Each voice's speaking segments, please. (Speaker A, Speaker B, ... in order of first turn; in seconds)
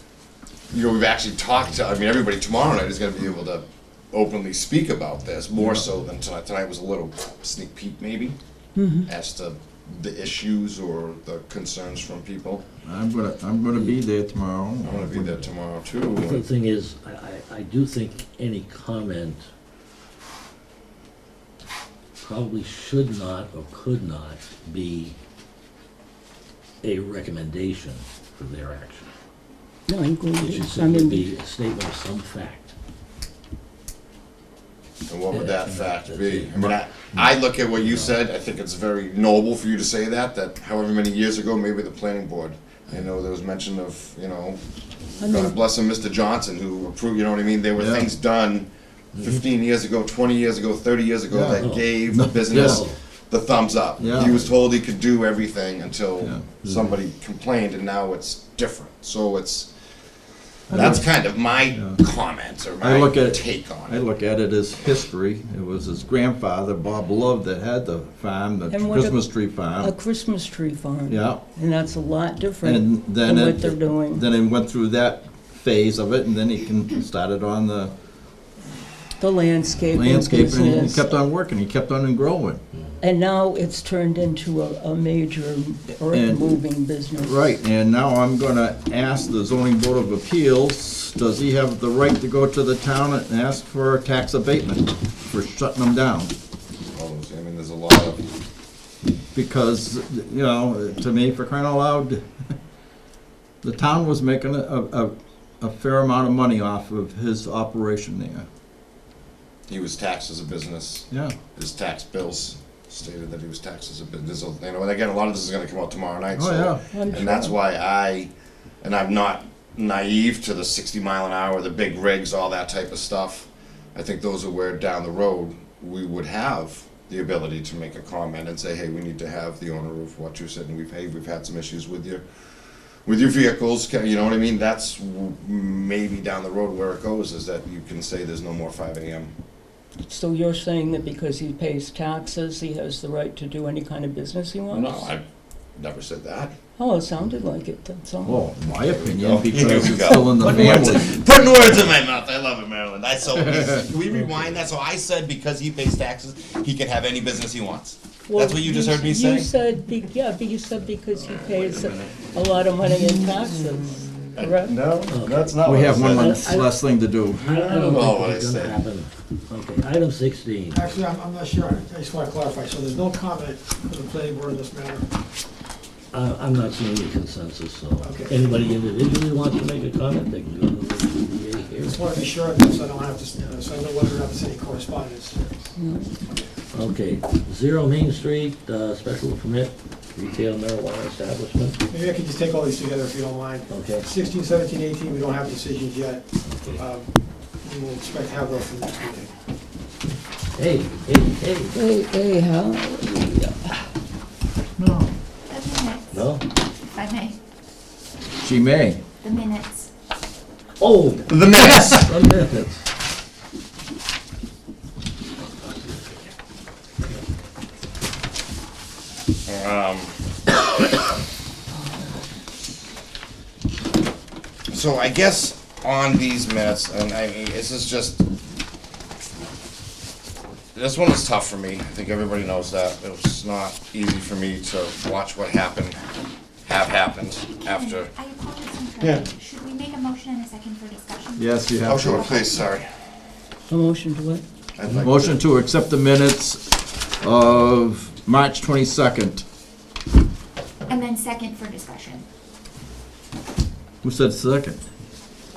Speaker A: 0.7-8.3, 9.1-12.6, 14.8-16.4, 35.1-44.6, 45.1-48.7, 49.2-59.7, 60.7-64.0, 96.9-98.2, 109.7-118.3, 118.8-132.2, 133.1-139.3, 144.7-145.2, 145.8-146.5, 148.9-159.5, 161.2-162.2, 162.8-166.5, 167.3-168.8, 211.3-212.1, 219.5-220.1, 224.7-228.2, 230.8-236.0, 236.7-238.1, 239.0-239.3, 241.8-242.9, 244.8-245.4
Speaker B: 8.8-9.1, 29.9-31.2, 45.2-45.6, 68.7-69.2, 69.8-74.3, 79.2-81.2, 83.0-87.4, 116.9-117.5, 140.1-145.1, 146.8-148.4, 158.3-164.9, 185.8-186.2, 201.7-203.8, 243.7-244.4
Speaker C: 12.8-15.5, 47.8-48.1, 51.3-52.9, 54.0-54.4, 56.2-56.6, 60.7-61.1, 61.7-62.0, 62.8-69.9, 71.1-71.4, 72.6-77.9, 79.9-82.6, 86.1-86.5, 87.2-96.3, 99.3-102.3, 103.6-108.5, 116.3-116.8, 148.2-151.2, 165.6-167.4, 204.8-205.1, 208.4-209.0, 241.4-242.2, 244.9-249.4, 254.0-254.8
Speaker D: 16.2-19.4, 22.2-25.2, 26.8-29.1, 30.4-32.7, 35.3-37.2, 51.6-51.9, 52.5-53.0, 54.0-54.5, 60.7-61.0, 165.1-166.4, 167.4-170.9, 176.1-182.2, 186.7-191.8, 193.7-194.1, 196.5-196.8, 200.6-201.7, 206.1-206.5, 210.8-212.8
Speaker E: 170.7-175.1, 178.0-178.4, 181.8-185.5, 191.9-197.1, 197.6-199.3
Speaker F: 205.5-206.2, 206.8-207.4, 209.2-209.9, 237.7-241.4, 250.9-252.2